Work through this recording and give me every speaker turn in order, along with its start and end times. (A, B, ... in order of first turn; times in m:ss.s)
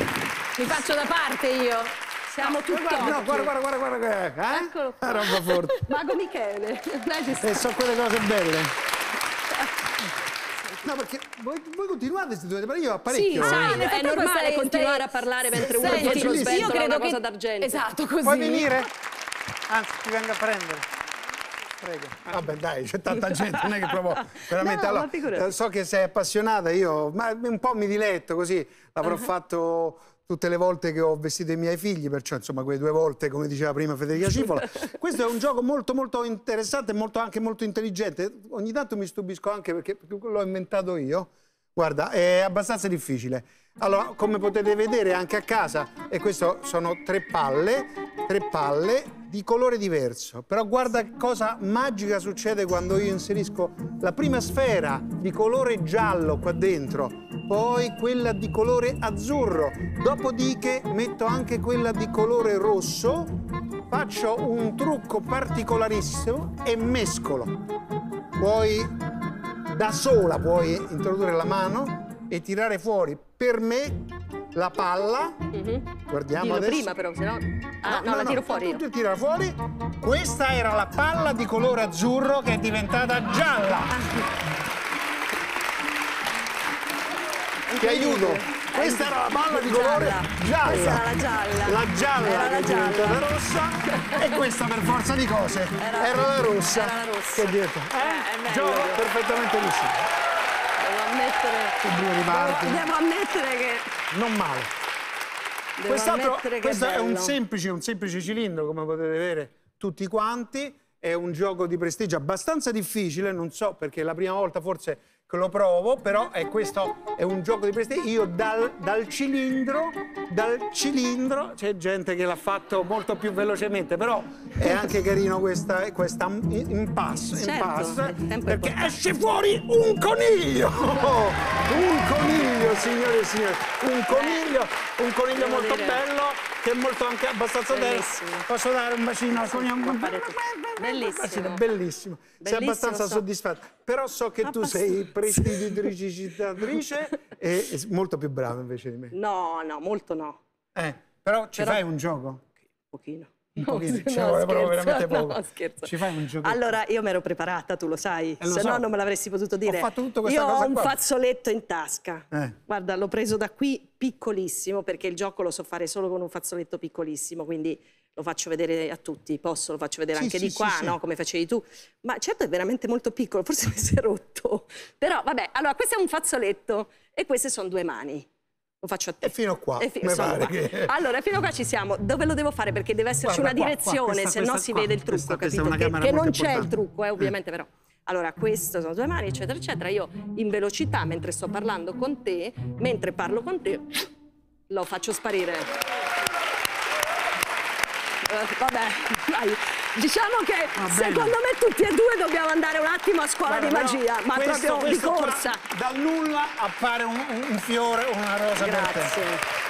0:00.6-0:02.6 A
0:02.3-0:03.5 B
0:02.7-0:05.9 C
0:04.5-0:07.7 B
0:07.4-0:08.7 C
0:10.8-0:13.8 C
0:13.1-0:17.8 B
0:13.4-0:18.7 A
0:15.5-0:16.7 C
0:18.2-0:18.9 C
0:19.7-0:20.8 C
0:21.8-1:03.3 C
0:23.3-0:25.5 B
1:03.9-1:07.5 C
1:08.4-1:09.0 C
1:09.7-1:15.4 C
1:15.5-1:18.8 B
1:16.1-1:16.9 C
1:17.8-1:24.0 C
1:23.9-1:24.3 B
1:27.7-1:33.3 B
1:27.8-1:40.0 C
1:34.0-1:34.3 B
1:35.8-1:39.0 B
1:40.8-1:44.0 B
1:41.8-1:42.9 C
1:44.1-1:44.7 C
1:45.8-1:47.4 B
1:45.9-2:29.1 C
2:07.3-2:09.0 B
2:14.1-2:14.5 B
2:15.3-2:16.0 B
2:17.7-2:18.5 B
2:19.3-2:21.6 B
2:22.4-2:23.2 B
2:24.4-2:25.9 B
2:29.1-2:30.4 B
2:30.7-2:32.4 C
2:31.5-2:31.8 B
2:32.9-2:58.3 B
2:33.6-2:36.8 C
2:38.4-2:38.8 C
2:39.6-2:41.0 C
2:42.3-2:42.6 C
2:50.1-2:51.0 C
2:58.8-3:14.1 B
2:59.2-3:00.9 C
3:03.2-3:07.3 C
3:14.7-3:15.7 B
3:18.3-3:25.6 B
3:20.8-3:21.3 C
3:23.4-3:29.2 C
3:28.6-3:29.4 B